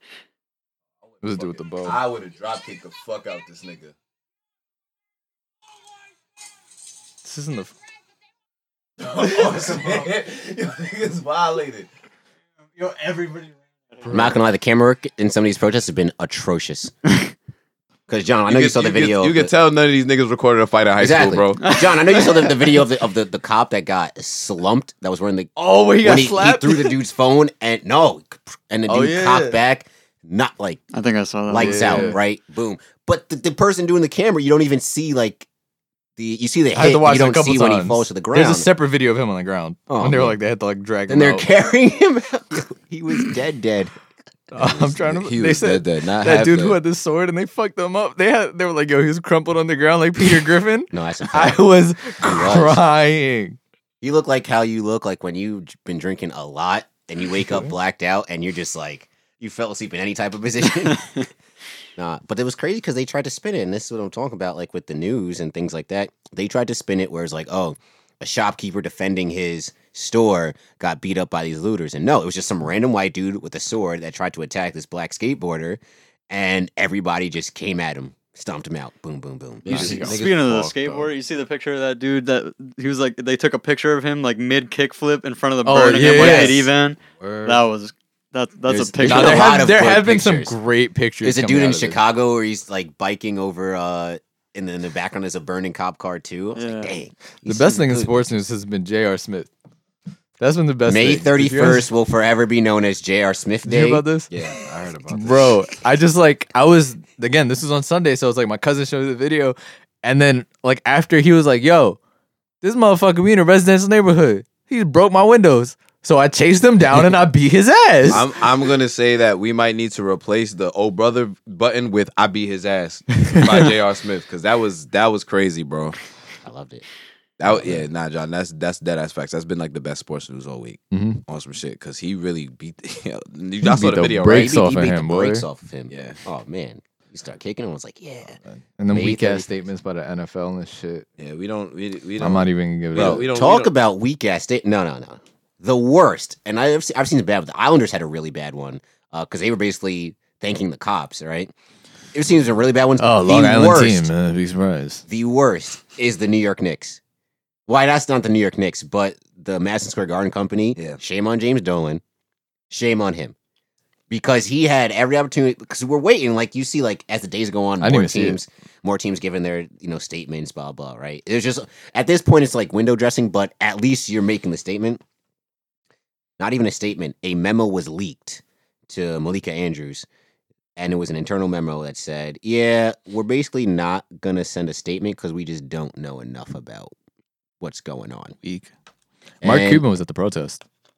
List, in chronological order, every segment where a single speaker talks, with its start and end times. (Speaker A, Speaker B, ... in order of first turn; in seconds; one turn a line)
Speaker A: 1.2-2.0
Speaker B: 1.8-3.9
Speaker A: 7.2-7.7
Speaker B: 9.0-11.9
Speaker A: 12.8-14.3
Speaker C: 14.1-16.9
Speaker C: 18.1-19.5
Speaker B: 18.5-21.6
Speaker C: 21.0-30.8
Speaker D: 21.6-22.5
Speaker A: 25.6-26.9
Speaker A: 28.9-29.6
Speaker D: 30.9-32.1
Speaker C: 31.5-35.5
Speaker A: 31.6-32.2
Speaker C: 36.2-38.7
Speaker A: 36.7-41.5
Speaker C: 39.9-40.4
Speaker C: 41.1-44.0
Speaker C: 44.5-45.0
Speaker A: 44.5-53.6
Speaker B: 45.0-46.8
Speaker C: 50.9-51.6
Speaker C: 52.2-52.8
Speaker C: 54.0-61.2
Speaker C: 62.0-80.1
Speaker B: 79.7-81.1
Speaker A: 79.7-80.6
Speaker D: 79.7-89.5
Speaker A: 85.7-87.6
Speaker C: 86.2-86.6
Speaker C: 88.7-90.5
Speaker A: 89.0-92.0
Speaker C: 91.2-98.1
Speaker D: 96.6-97.0
Speaker A: 97.5-99.5
Speaker A: 100.4-101.9
Speaker C: 100.9-104.1
Speaker A: 103.7-104.3
Speaker B: 104.3-105.6
Speaker A: 105.1-112.0
Speaker A: 112.6-118.3
Speaker B: 118.1-126.0
Speaker A: 123.3-123.6
Speaker C: 126.4-126.8
Speaker B: 127.4-134.6
Speaker A: 130.9-131.2
Speaker A: 133.6-135.5
Speaker C: 134.2-138.4
Speaker B: 135.9-136.2
Speaker A: 138.5-141.1
Speaker C: 138.9-139.5
Speaker B: 141.2-143.7
Speaker A: 142.2-143.2
Speaker C: 142.9-151.5
Speaker C: 152.1-154.1
Speaker A: 153.0-155.0
Speaker C: 155.1-157.0
Speaker C: 157.7-162.0
Speaker C: 162.7-163.3
Speaker C: 164.1-175.0
Speaker A: 167.8-168.4
Speaker C: 176.4-180.1
Speaker C: 180.8-186.9
Speaker C: 187.6-188.4
Speaker A: 188.4-188.7
Speaker C: 189.4-189.8
Speaker A: 189.4-190.6